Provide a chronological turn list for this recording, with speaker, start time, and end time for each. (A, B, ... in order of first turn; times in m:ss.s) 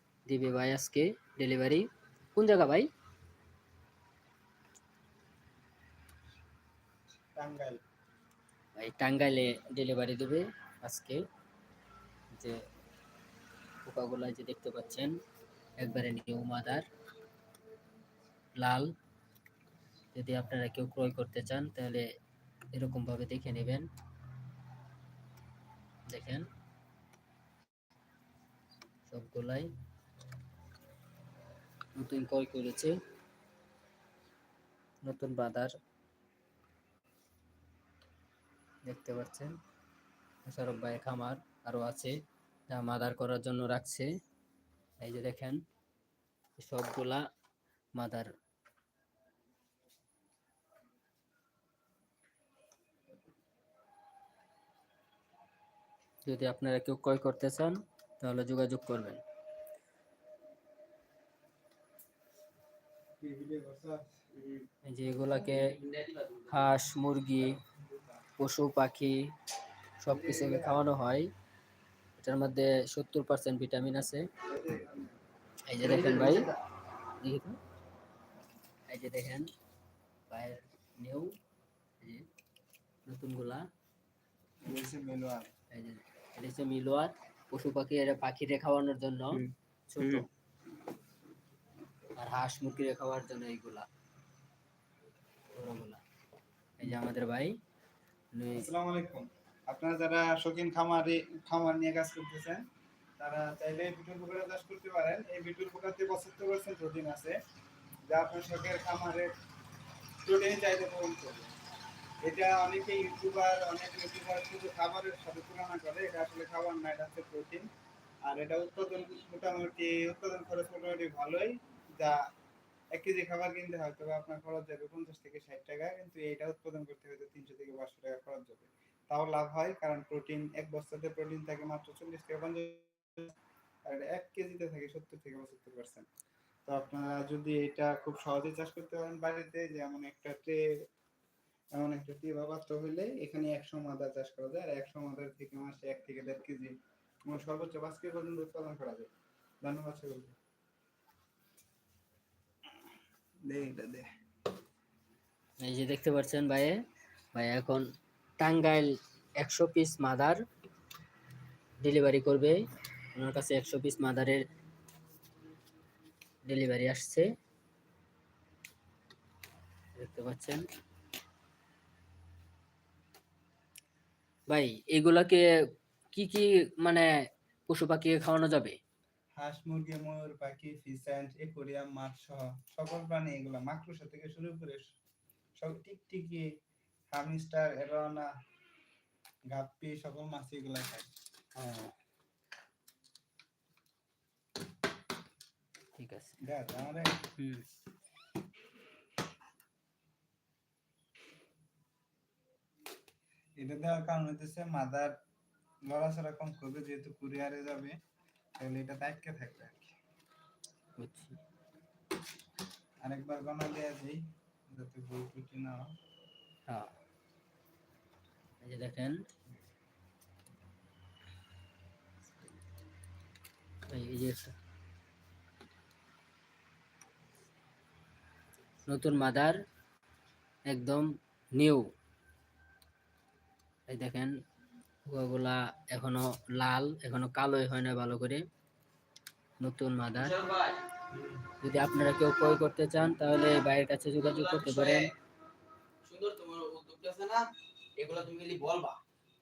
0:00.3-0:02.9 A
0:07.4-0:07.8 B
0:08.8-0:11.2 A
0:13.8-0:15.2 A
0:15.8-0:16.8 A
0:18.6-0:18.9 A
0:20.1-0:22.1 A
0:22.7-0:23.9 A
0:26.1-0:26.5 A
0:29.1-0:29.7 A
0:32.0-0:32.9 A
0:35.0-0:35.7 A
0:38.8-0:39.5 A
0:40.4-0:42.2 A
0:42.7-0:44.1 A
0:45.0-0:45.6 A
0:46.6-0:47.2 A
0:48.0-0:48.3 A
0:56.3-0:59.2 A
1:03.2-1:04.2 B
1:04.4-1:04.7 C
1:04.9-1:05.7 A
1:05.4-1:06.8 C
1:06.5-1:07.6 A
1:07.8-1:08.2 B
1:08.4-1:09.3 A
1:10.0-1:11.3 A
1:10.1-1:10.8 B
1:12.2-1:14.3 A
1:14.5-1:15.2 B
1:15.7-1:16.5 A
1:15.8-1:16.5 B
1:17.2-1:17.6 A
1:18.9-1:19.5 A
1:20.3-1:21.3 A
1:23.1-1:23.6 A
1:24.6-1:25.5 B
1:25.7-1:30.3 A
1:29.3-1:30.3 B
1:32.2-1:33.9 A
1:35.5-1:36.0 A
1:36.8-1:37.6 A
1:38.3-1:38.7 A
1:38.6-1:42.6 B
1:43.2-1:47.4 B
1:48.1-1:49.3 B
1:50.2-1:51.5 B
1:52.2-1:57.7 B
1:58.2-2:02.2 B
2:02.9-2:13.3 B
2:13.9-2:16.1 B
2:16.7-2:20.6 B
2:21.8-2:26.8 B
2:27.3-2:29.1 B
2:29.6-2:30.4 B
2:33.5-2:34.1 B
2:35.6-2:36.8 A
2:37.3-2:37.8 A
2:38.4-2:40.4 A
2:41.8-2:42.6 A
2:43.2-2:44.4 A
2:46.5-2:47.3 A
2:50.0-2:50.6 A
2:54.5-2:55.5 A
2:56.1-2:57.1 A
2:57.7-2:58.8 A
2:59.4-3:04.9 B
3:05.6-3:06.5 B
3:07.1-3:08.3 B
3:09.5-3:11.1 B
3:11.6-3:11.9 A
3:16.0-3:16.4 A
3:16.4-3:17.2 B
3:17.4-3:17.6 A
3:23.6-3:25.1 B
3:25.9-3:28.0 B
3:28.6-3:29.9 B
3:31.0-3:31.4 A
3:33.0-3:35.9 B
3:38.6-3:39.2 A
3:43.9-3:44.6 A
3:48.9-3:49.6 A
3:50.7-3:51.9 A
3:53.9-3:54.3 A
3:55.0-3:58.4 A
3:59.6-4:00.4 A
4:00.2-4:00.8 C
4:01.6-4:05.1 A
4:04.2-4:05.1 C
4:06.0-4:09.0 C